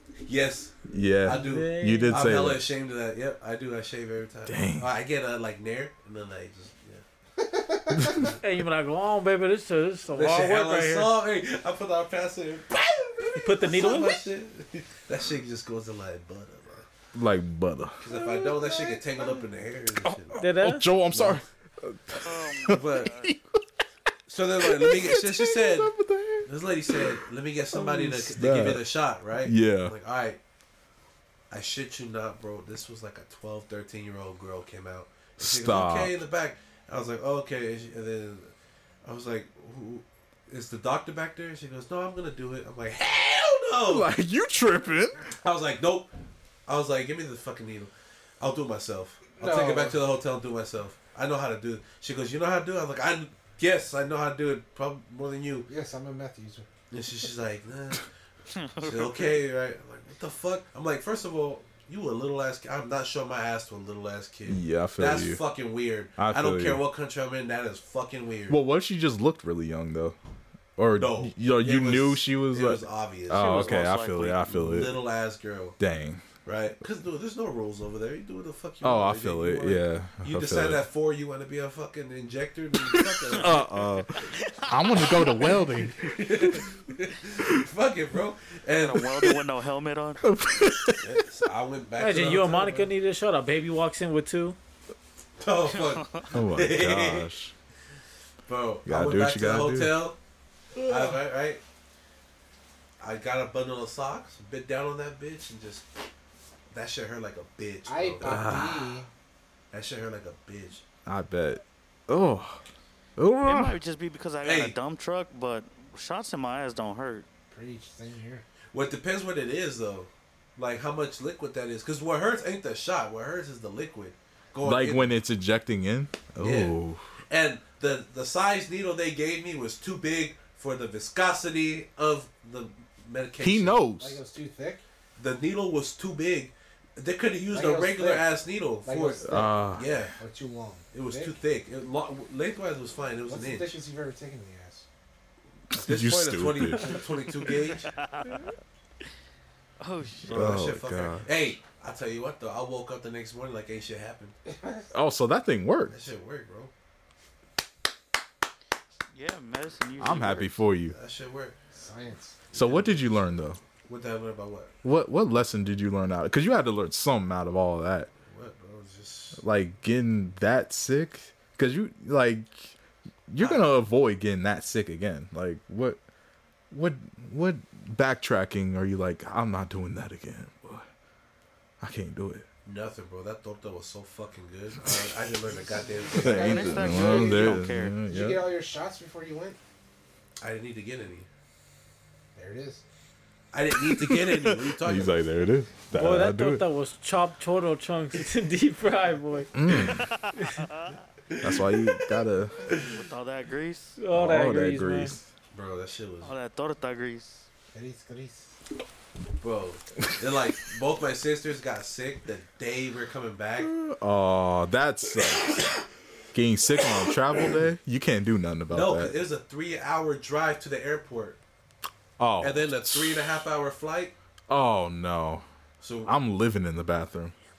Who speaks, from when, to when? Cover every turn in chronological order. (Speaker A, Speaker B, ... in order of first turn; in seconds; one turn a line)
Speaker A: 0.2-7.0
Speaker B: 0.9-2.6
Speaker C: 1.3-2.3
Speaker B: 4.5-4.9
Speaker D: 7.4-8.3
Speaker B: 8.0-8.3
Speaker C: 8.4-11.1
Speaker A: 10.1-16.9
Speaker C: 13.3-14.3
Speaker B: 17.1-19.0
Speaker A: 18.0-20.4
Speaker B: 20.3-23.6
Speaker C: 20.4-20.9
Speaker A: 21.1-21.4
Speaker E: 22.2-23.3
Speaker A: 22.7-23.1
Speaker A: 24.3-25.9
Speaker B: 24.6-27.2
Speaker A: 26.4-30.4
Speaker C: 27.8-28.3
Speaker B: 28.0-28.8
Speaker B: 29.4-29.9
Speaker A: 31.5-38.5
Speaker B: 35.4-36.2
Speaker A: 39.0-44.1
Speaker B: 43.9-45.3
Speaker A: 45.3-46.1
Speaker A: 46.7-55.7
Speaker D: 49.4-50.0
Speaker D: 55.7-56.7
Speaker A: 56.9-58.1
Speaker E: 58.5-59.4
Speaker A: 58.8-68.6
Speaker B: 64.5-65.4
Speaker B: 66.2-66.8
Speaker B: 68.5-70.2
Speaker B: 70.8-75.0
Speaker A: 71.0-73.9
Speaker E: 73.3-74.4
Speaker A: 74.5-75.8
Speaker B: 75.8-76.3
Speaker A: 76.4-83.7
Speaker B: 78.8-80.8
Speaker B: 83.3-86.7
Speaker E: 84.1-85.7
Speaker A: 85.9-89.3
Speaker E: 88.8-90.2
Speaker B: 90.2-91.2
Speaker A: 91.0-92.9
Speaker C: 92.0-94.6
Speaker A: 95.4-97.3
Speaker E: 95.7-96.3
Speaker B: 96.3-97.5
Speaker A: 98.5-100.2
Speaker B: 98.9-100.0
Speaker A: 100.8-101.6
Speaker A: 103.0-105.9
Speaker A: 106.7-108.6
Speaker D: 107.9-109.1
Speaker B: 108.2-108.9
Speaker A: 109.7-110.8
Speaker B: 111.1-112.6
Speaker B: 113.2-113.8
Speaker E: 113.4-117.3
Speaker A: 114.4-114.8
Speaker D: 117.5-118.4
Speaker A: 118.7-125.1
Speaker B: 124.6-127.0
Speaker A: 126.4-126.8
Speaker A: 127.3-133.9
Speaker B: 133.4-134.2
Speaker D: 133.9-134.8
Speaker A: 135.2-140.2
Speaker D: 137.5-141.4
Speaker B: 139.2-139.9
Speaker A: 140.9-143.8
Speaker D: 143.3-144.9
Speaker B: 145.7-147.1
Speaker A: 145.7-147.9
Speaker E: 147.9-148.4
Speaker E: 149.8-150.6
Speaker A: 150.3-154.4
Speaker B: 150.3-151.4
Speaker D: 154.5-154.9
Speaker B: 154.9-156.0
Speaker A: 155.9-156.7
Speaker E: 159.1-160.5
Speaker B: 160.0-160.9
Speaker A: 160.9-161.6
Speaker D: 161.7-162.5
Speaker A: 162.5-163.1
Speaker B: 162.5-163.6
Speaker A: 163.8-164.7
Speaker B: 164.8-168.1
Speaker A: 168.2-169.4
Speaker B: 169.4-172.8
Speaker B: 173.3-176.0
Speaker A: 173.4-173.7
Speaker B: 176.7-180.9
Speaker B: 181.8-182.5
Speaker A: 182.7-186.8
Speaker D: 185.5-189.6
Speaker B: 186.2-188.4
Speaker E: 186.2-187.9
Speaker A: 190.4-191.3
Speaker D: 192.3-192.8
Speaker A: 193.5-195.1
Speaker B: 193.8-196.7
Speaker C: 195.9-199.5
Speaker B: 199.5-200.1
Speaker E: 199.8-201.0
Speaker A: 201.3-202.1
Speaker B: 201.4-202.7
Speaker A: 202.7-203.0
Speaker E: 202.7-204.0
Speaker C: 204.0-205.2
Speaker B: 204.1-205.2
Speaker A: 205.5-206.3
Speaker E: 206.2-207.5
Speaker D: 207.7-208.6
Speaker A: 209.4-213.7
Speaker B: 213.6-215.6
Speaker B: 216.3-219.2
Speaker A: 218.7-221.4
Speaker B: 222.2-223.4
Speaker A: 222.4-224.1
Speaker B: 224.5-225.4
Speaker A: 225.8-226.2
Speaker B: 226.1-227.3